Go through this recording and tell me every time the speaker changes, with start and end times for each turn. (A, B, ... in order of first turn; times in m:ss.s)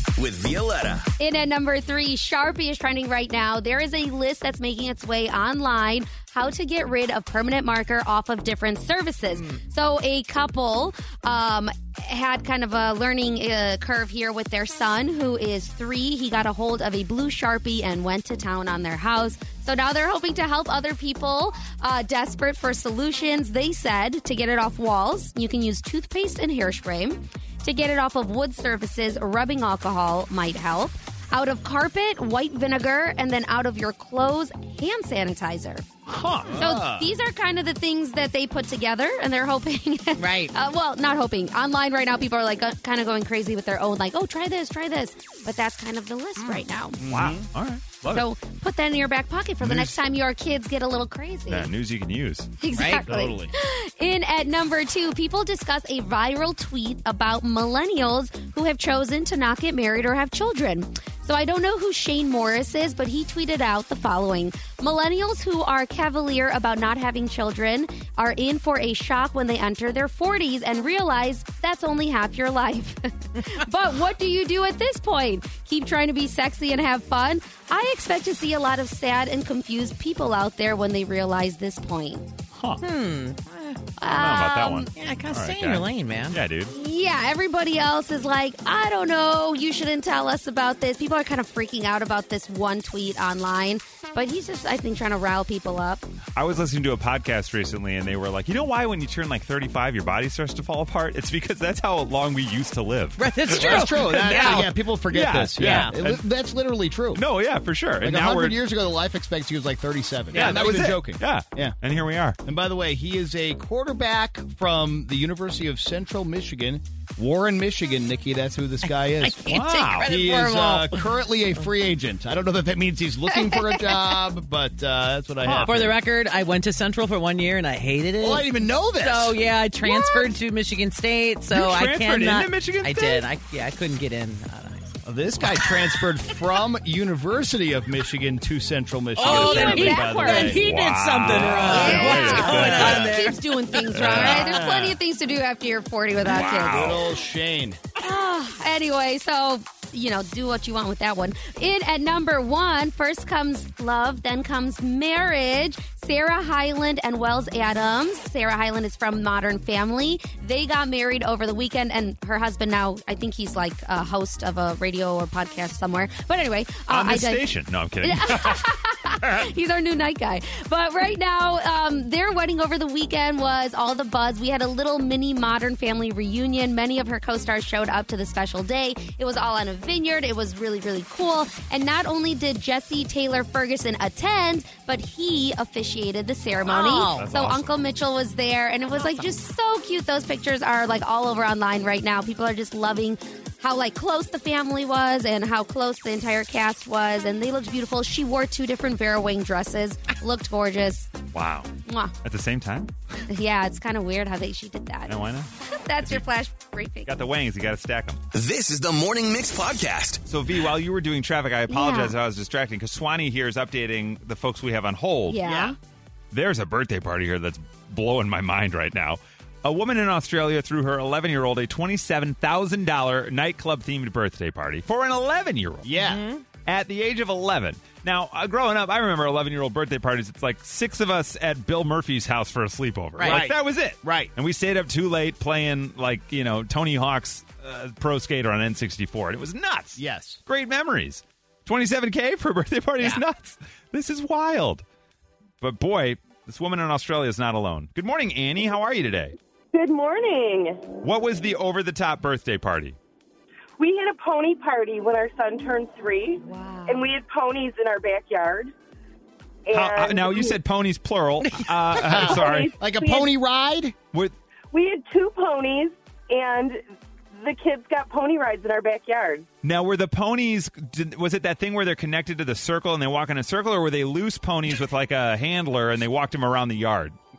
0:00.2-0:01.1 A
0:01.2-0:35.9 B
0:36.1-0:36.6 C
0:36.4-0:37.1 D
0:36.6-0:47.0 B
0:40.2-0:40.5 E
0:46.4-0:46.6 E
0:47.0-0:47.5 D
0:47.0-0:48.3 C
0:48.1-0:51.7 B
0:49.6-0:50.0 C
0:51.5-0:52.5 C
0:52.6-1:22.3 B
0:52.7-0:53.0 E
0:52.9-0:53.5 D
1:22.5-1:22.8 C
1:22.8-1:23.8 E
1:24.0-1:24.9 B
1:24.1-1:26.7 C
1:24.9-1:26.4 E
1:26.7-1:36.1 B
1:36.4-1:46.2 C
1:43.2-1:44.7 E
1:43.5-1:47.2 D
1:45.6-1:45.9 E
1:47.1-1:48.6 C
1:48.0-1:51.8 D
1:50.3-1:52.4 C
1:50.3-1:50.7 E
1:52.4-1:59.5 D
1:59.0-2:01.2 E
1:59.5-2:00.1 C
2:00.0-2:06.0 D
2:05.4-2:05.7 C
2:05.6-2:15.0 E
2:08.2-2:09.4 D
2:09.9-2:10.3 B
2:11.5-2:13.3 C
2:15.1-2:20.6 D
2:19.2-2:23.5 E
2:19.2-2:20.6 B
2:19.4-2:23.2 C
2:21.3-2:23.3 D
2:21.7-2:27.0 B
2:23.9-2:24.8 C
2:24.0-2:25.0 D
2:26.2-2:27.0 C
2:26.4-2:27.8 D
2:28.0-2:47.5 B
2:46.9-2:48.6 C
2:48.0-3:21.1 B
3:06.7-3:07.2 E
3:07.1-3:07.8 C
3:21.3-3:21.7 C
3:21.9-3:22.2 B
3:22.2-3:22.9 C
3:23.3-3:27.1 B
3:25.1-3:25.5 C
3:27.1-3:28.2 C
3:28.3-3:30.2 A
3:30.3-3:35.4 C
3:31.7-3:32.2 B
3:35.3-3:35.8 B
3:35.4-3:35.7 D
3:36.3-3:45.9 C
3:45.8-3:46.2 D
3:46.0-3:46.4 E
3:46.7-4:04.8 C
3:53.2-3:53.4 E
3:53.2-3:54.3 D
4:00.0-4:00.4 D
4:05.6-4:09.4 C
4:09.7-4:10.9 F
4:11.0-4:13.0 C
4:13.8-4:18.7 F
4:16.4-4:17.1 B
4:19.7-4:20.6 F
4:19.7-4:22.8 C
4:22.0-4:24.0 D
4:22.3-4:23.3 F
4:24.7-4:26.8 F
4:27.3-4:29.5 F
4:29.6-4:37.2 C